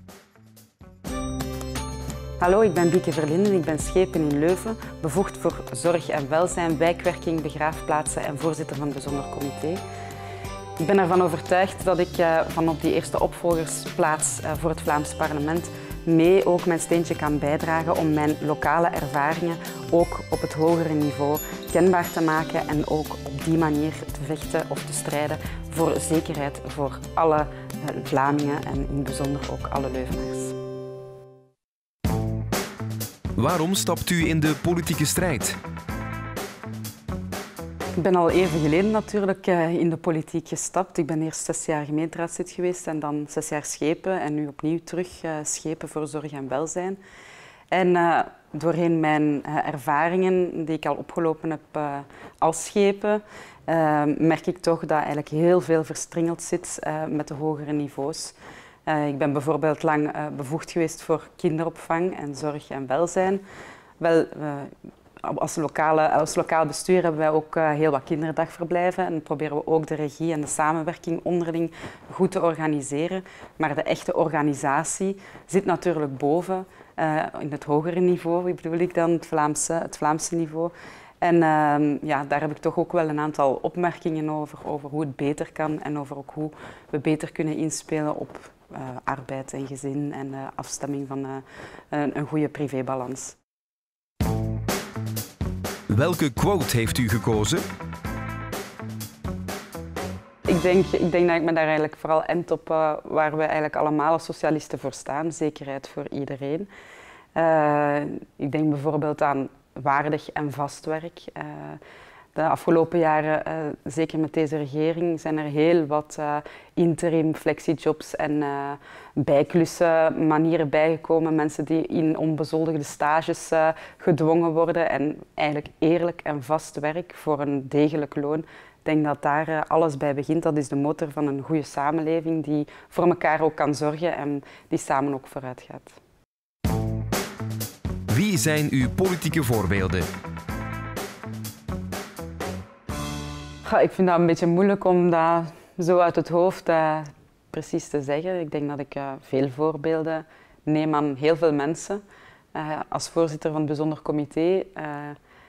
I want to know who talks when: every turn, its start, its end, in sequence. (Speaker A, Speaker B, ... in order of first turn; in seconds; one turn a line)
Speaker A: 2.4-9.8
Speaker A: 10.8-30.6
Speaker B: 33.4-35.6
Speaker A: 38.0-47.0
Speaker A: 47.7-58.4
Speaker A: 58.9-63.4
Speaker A: 64.0-93.4
Speaker B: 95.9-97.7
Speaker A: 100.5-106.7
Speaker A: 107.3-111.8
Speaker A: 112.3-136.0
Speaker B: 138.1-140.1
Speaker A: 143.7-152.0
Speaker A: 152.5-155.2